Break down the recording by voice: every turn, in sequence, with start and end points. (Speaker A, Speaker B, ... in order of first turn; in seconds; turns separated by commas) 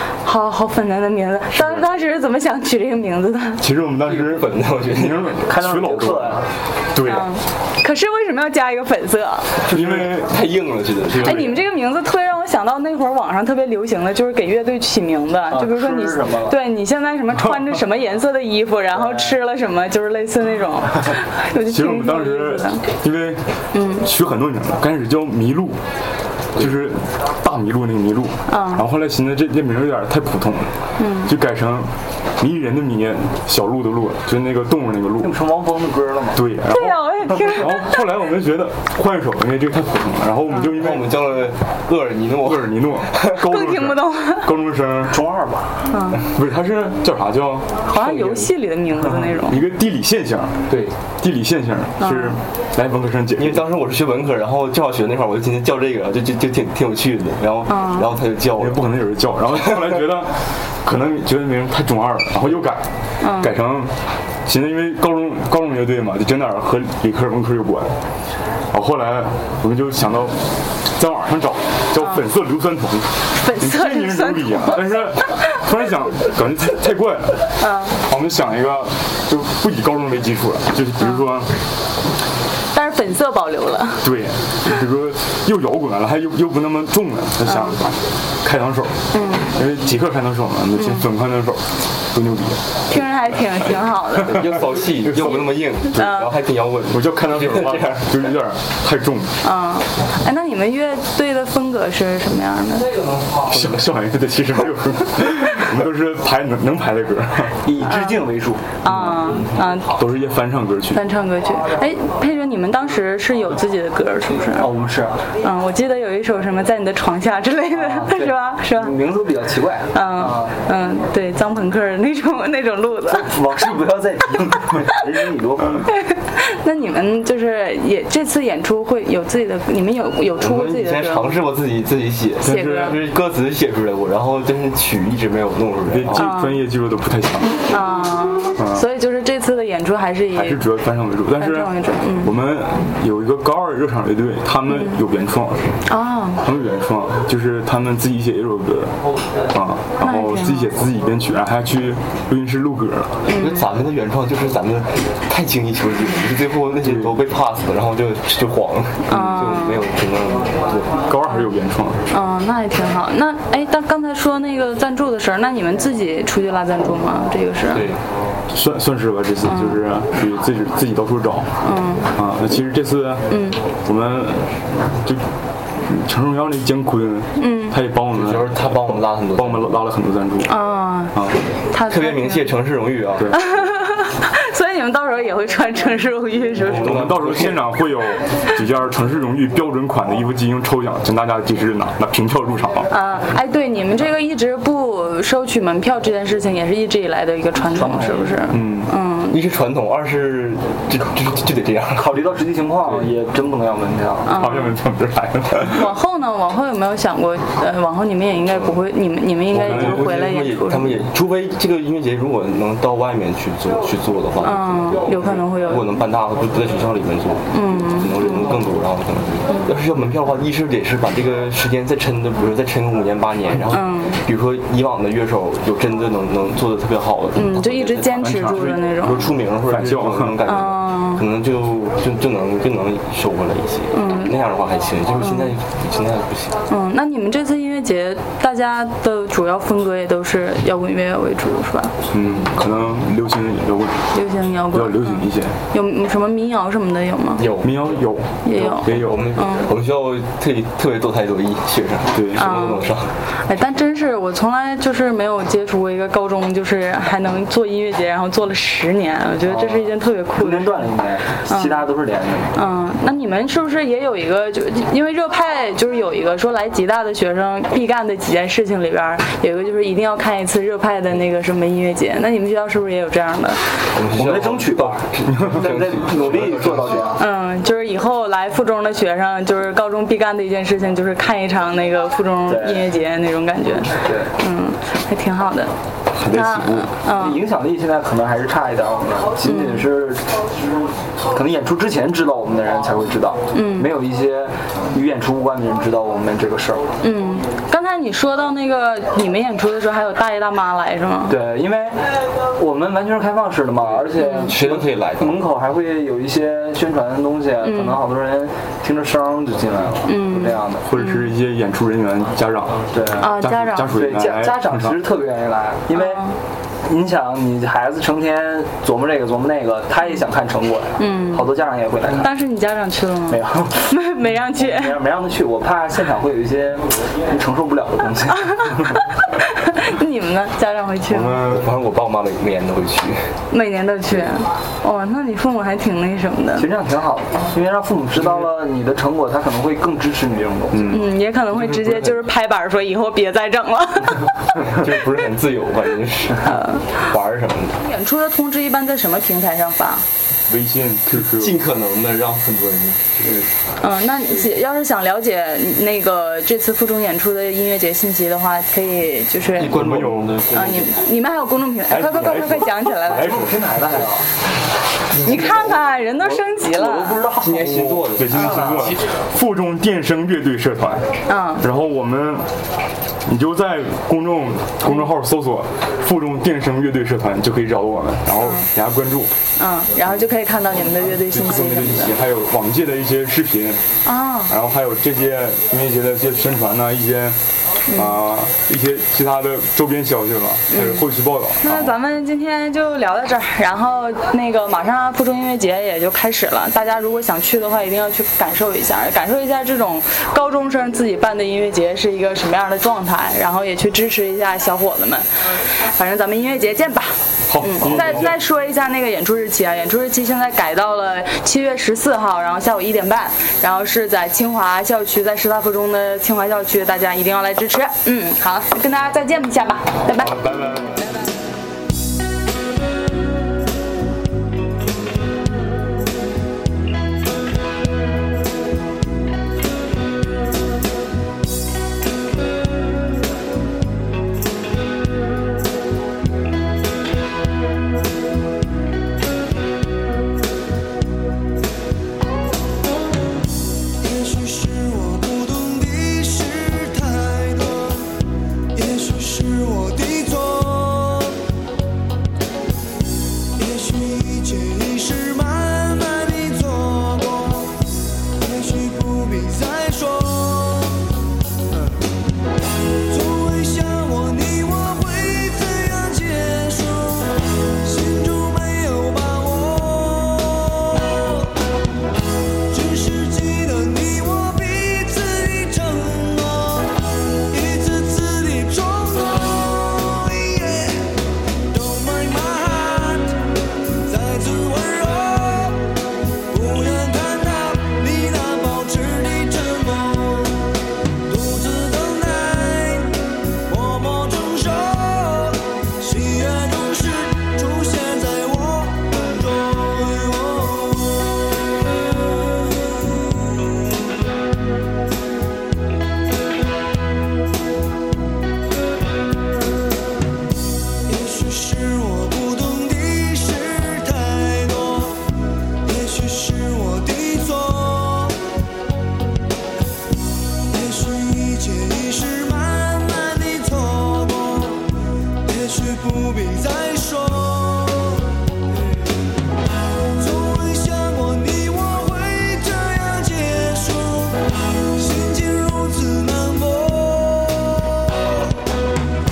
Speaker A: 0.2-3.6, Speaker B: 3.6-7.3, Speaker C: 4.0-5.3, Speaker D: 5.4-6.5, Speaker A: 7.0-9.6, Speaker B: 9.7-10.4, Speaker C: 9.7-11.6, Speaker A: 11.2-22.8, Speaker B: 11.2-11.6, Speaker D: 15.5-16.6, Speaker D: 18.9-19.4, Speaker B: 21.6-25.8, Speaker A: 23.7-24.1, Speaker B: 26.5-35.4, Speaker A: 28.5-28.9, Speaker A: 31.0-31.3, Speaker D: 35.2-36.5, Speaker B: 36.3-41.2, Speaker A: 36.6-38.0, Speaker C: 40.6-43.4, Speaker B: 42.4-45.2, Speaker A: 43.3-44.5, Speaker D: 45.1-45.9, Speaker A: 45.9-46.2, Speaker B: 46.2-47.8, Speaker A: 47.9-49.6, Speaker C: 48.0-48.5, Speaker B: 49.4-53.7, Speaker C: 50.7-50.9, Speaker A: 52.0-52.4, Speaker C: 53.4-58.9, Speaker A: 57.7-58.1, Speaker B: 58.5-67.9, Speaker A: 63.2-63.5, Speaker B: 68.7-81.5, Speaker A: 72.0-72.2, Speaker A: 73.3-75.5, Speaker A: 77.6-78.0, Speaker A: 82.7-84.1, Speaker B: 84.0-93.0, Speaker A: 87.4-87.8, Speaker A: 89.1-89.5, Speaker A: 90.8-91.0, Speaker A: 92.9-94.6, Speaker B: 94.2-96.1, Speaker C: 94.2-98.3, Speaker A: 95.3-96.3, Speaker B: 96.9-99.4, Speaker A: 99.4-102.9, Speaker B: 103.4-107.6, Speaker D: 107.6-108.6, Speaker A: 107.8-108.2, Speaker A: 108.8-109.9, Speaker B: 108.8-111.0, Speaker A: 110.9-114.7, Speaker D: 114.5-115.2, Speaker A: 115.4-119.0, Speaker D: 117.7-120.5, Speaker A: 119.9-123.3, Speaker D: 123.1-125.9, Speaker A: 125.9-131.4, Speaker C: 130.4-136.3, Speaker B: 132.4-133.0, Speaker A: 132.4-133.0, Speaker B: 135.9-137.7, Speaker A: 136.1-136.6, Speaker A: 137.7-140.6, Speaker B: 138.6-138.8, Speaker B: 140.3-145.8, Speaker A: 141.4-142.3, Speaker A: 144.7-144.9, Speaker A: 145.8-146.4, Speaker B: 146.4-153.2, Speaker A: 150.0-150.7, Speaker A: 153.2-153.7, Speaker C: 153.3-161.0, Speaker B: 156.8-157.2, Speaker A: 159.1-159.8, Speaker B: 161.0-162.1, Speaker A: 162.1-167.9, Speaker C: 167.7-168.0, Speaker B: 168.5-171.6, Speaker A: 169.4-169.8, Speaker A: 171.6-172.1, Speaker B: 172.1-175.2, Speaker A: 173.3-173.6, Speaker B: 175.8-180.6, Speaker A: 177.4-177.8, Speaker C: 178.1-179.8, Speaker A: 180.4-181.2, Speaker B: 181.1-181.4, Speaker A: 181.7-182.5, Speaker C: 181.9-183.4, Speaker A: 183.3-187.0, Speaker C: 186.6-187.6, Speaker B: 186.6-192.9, Speaker A: 192.9-199.4, Speaker D: 197.7-198.4, Speaker B: 198.5-198.9, Speaker C: 199.3-202.2, Speaker D: 201.9-204.3, Speaker A: 204.2-204.7, Speaker B: 204.3-205.9, Speaker A: 205.6-211.0, Speaker C: 208.5-208.8, Speaker B: 209.5-210.2, Speaker C: 209.5-236.6, Speaker A: 214.4-215.9, Speaker A: 217.5-218.6, Speaker A: 223.7-224.2, Speaker A: 227.3-229.3, Speaker B: 228.2-228.8, Speaker B: 229.7-230.4, Speaker A: 230.4-231.2, Speaker A: 233.9-234.4, Speaker A: 235.2-235.5, Speaker A: 236.7-241.9, Speaker B: 242.1-244.1, Speaker C: 242.2-242.4, Speaker A: 244.1-247.4, Speaker B: 244.7-245.6, Speaker C: 247.4-253.1, Speaker B: 247.6-249.3, Speaker A: 248.4-249.7, Speaker B: 252.1-252.6, Speaker A: 252.3-260.9, Speaker D: 259.4-262.6, Speaker A: 261.5-261.9, Speaker A: 262.5-273.6, Speaker C: 273.9-277.2, Speaker D: 274.1-277.2, Speaker B: 275.3-275.6, Speaker A: 277.1-285.7, Speaker D: 282.5-282.9, Speaker D: 284.0-284.3, Speaker B: 286.1-287.0, Speaker A: 286.3-287.4, Speaker D: 287.1-290.5, Speaker A: 289.4-289.9, Speaker D: 291.3-296.9, Speaker A: 293.5-293.9, Speaker A: 297.0-301.4, Speaker D: 301.3-302.0, Speaker D: 302.6-310.9, Speaker C: 303.9-305.4, Speaker A: 304.2-304.5, Speaker A: 307.6-308.0, Speaker A: 310.1-311.3, Speaker B: 310.8-315.0, Speaker D: 312.9-316.2, Speaker A: 313.2-314.0, Speaker A: 315.9-316.3, Speaker D: 316.8-322.3, Speaker A: 321.0-321.5, Speaker A: 322.2-325.0, Speaker D: 323.3-323.9, Speaker D: 324.5-329.0, Speaker A: 328.6-331.4, Speaker B: 331.1-331.7, Speaker C: 331.4-333.3, Speaker A: 333.5-336.7, Speaker D: 336.6-340.9, Speaker B: 340.7-341.1, Speaker A: 340.9-344.3, Speaker C: 341.5-342.3, Speaker C: 344.5-347.8, Speaker A: 346.4-347.1, Speaker A: 347.8-350.0, Speaker B: 350.5-351.6, Speaker C: 351.1-353.4, Speaker A: 353.8-359.8, Speaker C: 359.6-361.0, Speaker B: 359.6-360.4, Speaker A: 360.5-363.4, Speaker C: 361.9-362.8, Speaker B: 362.2-363.5, Speaker D: 363.1-364.3, Speaker D: 365.1-365.5, Speaker A: 365.1-367.3, Speaker D: 366.7-368.9, Speaker C: 367.3-369.1, Speaker B: 367.9-371.1, Speaker A: 371.3-371.7, Speaker B: 371.6-372.4, Speaker B: 373.2-379.3, Speaker A: 379.6-382.1, Speaker B: 381.3-383.8, Speaker A: 384.0-384.5, Speaker B: 384.5-387.4, Speaker A: 387.9-388.2, Speaker B: 387.9-392.0, Speaker A: 390.7-391.1, Speaker A: 391.6-420.4, Speaker B: 407.5-408.4, Speaker B: 420.1-421.1, Speaker E: 444.0-448.2, Speaker E: 448.7-451.4, Speaker E: 453.6-461.2, Speaker E: 463.1-471.5, Speaker E: 472.7-483.5, Speaker E: 484.0-485.9, Speaker E: 486.5-503.7, Speaker E: 511.1-515.3, Speaker E: 515.8-518.4, Speaker E: 520.7-529.1, Speaker E: 530.0-538.5